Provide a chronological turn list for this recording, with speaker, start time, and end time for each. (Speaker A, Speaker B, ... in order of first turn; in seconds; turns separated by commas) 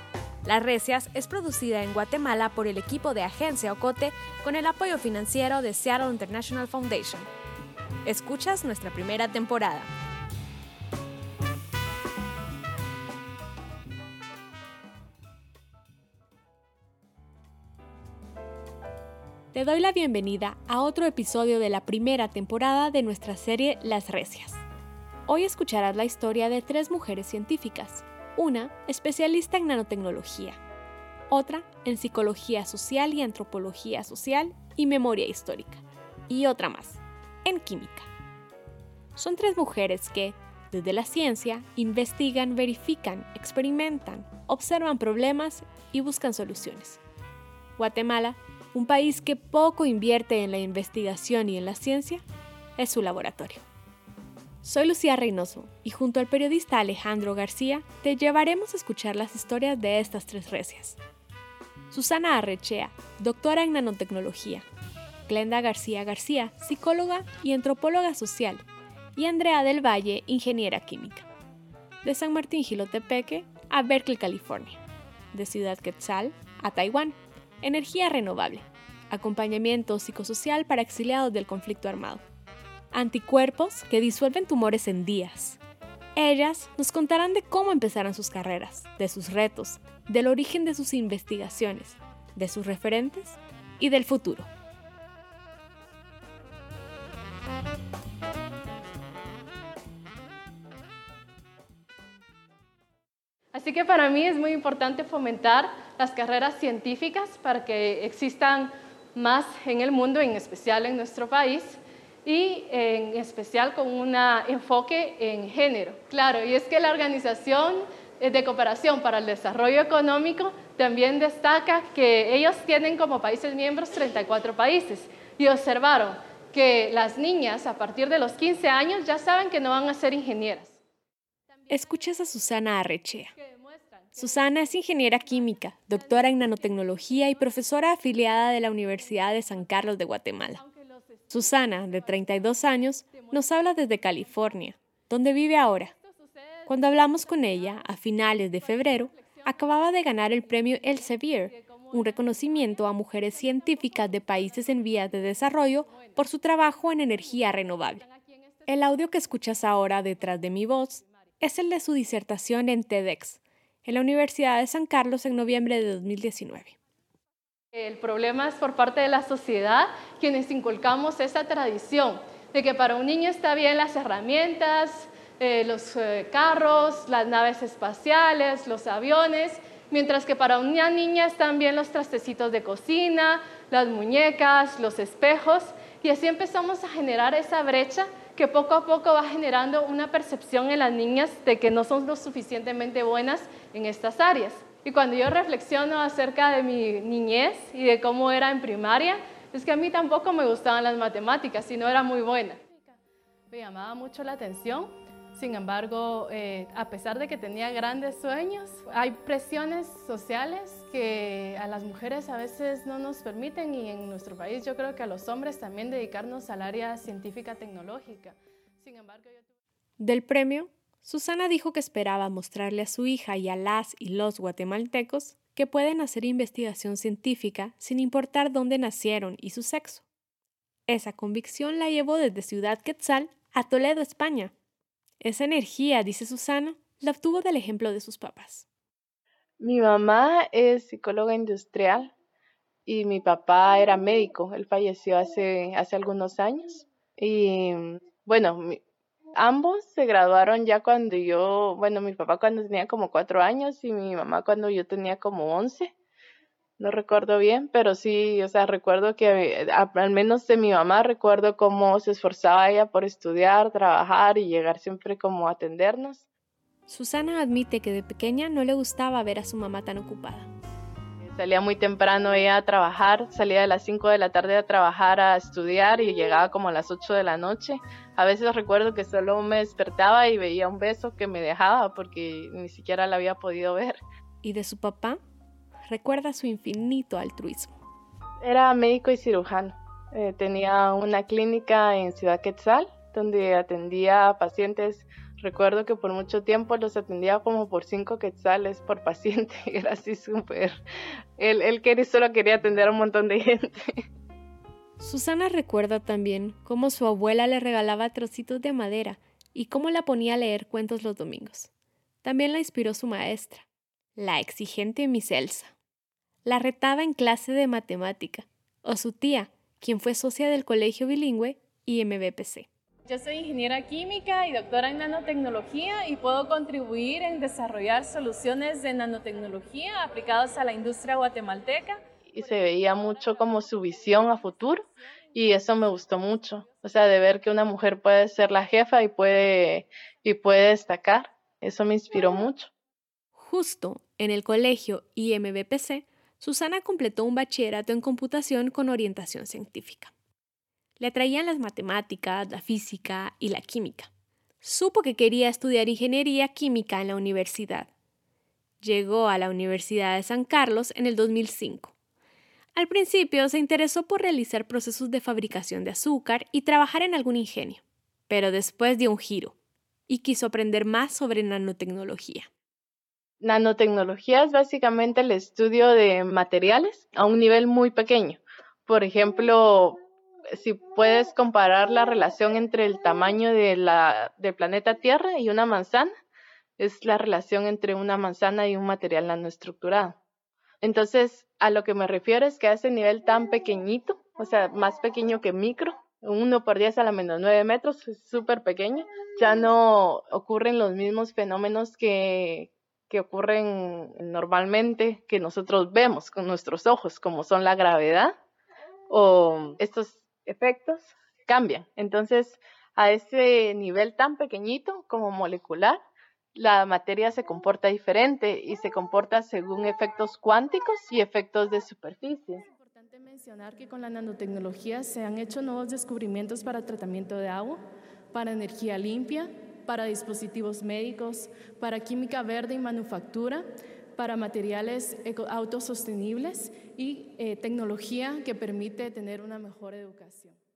Speaker A: 0.4-7.3, Speaker A: 8.0-9.9, Speaker A: 19.5-24.6, Speaker A: 25.3-30.6, Speaker A: 31.3-38.1, Speaker A: 39.1-47.0, Speaker A: 47.8-52.2, Speaker A: 52.8-53.6, Speaker A: 54.6-61.0, Speaker A: 61.9-64.7, Speaker A: 65.3-71.3, Speaker A: 72.0-74.8, Speaker A: 75.3-82.2, Speaker A: 82.9-85.6, Speaker A: 86.2-94.5, Speaker B: 103.5-130.8, Speaker B: 131.6-132.1, Speaker A: 131.7-133.3, Speaker B: 133.4-134.5, Speaker A: 134.2-140.6, Speaker B: 135.2-137.6, Speaker B: 139.2-139.6, Speaker B: 140.6-142.5, Speaker A: 141.3-145.9, Speaker B: 143.1-143.5, Speaker B: 146.0-147.9, Speaker A: 146.7-158.0, Speaker B: 148.5-156.2, Speaker B: 156.9-159.0, Speaker A: 158.7-166.8, Speaker B: 167.7-202.8, Speaker B: 203.5-219.5, Speaker A: 220.0-230.0, Speaker A: 230.9-234.5, Speaker A: 235.2-238.7, Speaker C: 239.6-242.1, Speaker C: 242.8-248.8, Speaker C: 249.3-255.9, Speaker C: 256.8-266.2, Speaker A: 266.9-270.5, Speaker C: 271.2-284.0, Speaker A: 284.4-285.2, Speaker A: 285.9-287.8, Speaker C: 288.4-300.8, Speaker C: 301.4-304.0, Speaker A: 305.0-311.7, Speaker A: 312.2-313.6, Speaker A: 314.2-315.7, Speaker A: 316.4-322.7, Speaker B: 323.1-332.0, Speaker C: 332.2-342.7, Speaker A: 343.4-350.1, Speaker A: 351.0-354.1, Speaker A: 354.6-357.9, Speaker A: 358.8-361.9, Speaker A: 362.7-369.5, Speaker A: 370.1-372.5, Speaker C: 373.4-380.0, Speaker C: 380.5-386.1, Speaker C: 386.8-390.2, Speaker C: 390.8-408.3, Speaker C: 409.1-416.0, Speaker C: 416.5-422.6, Speaker B: 422.7-440.6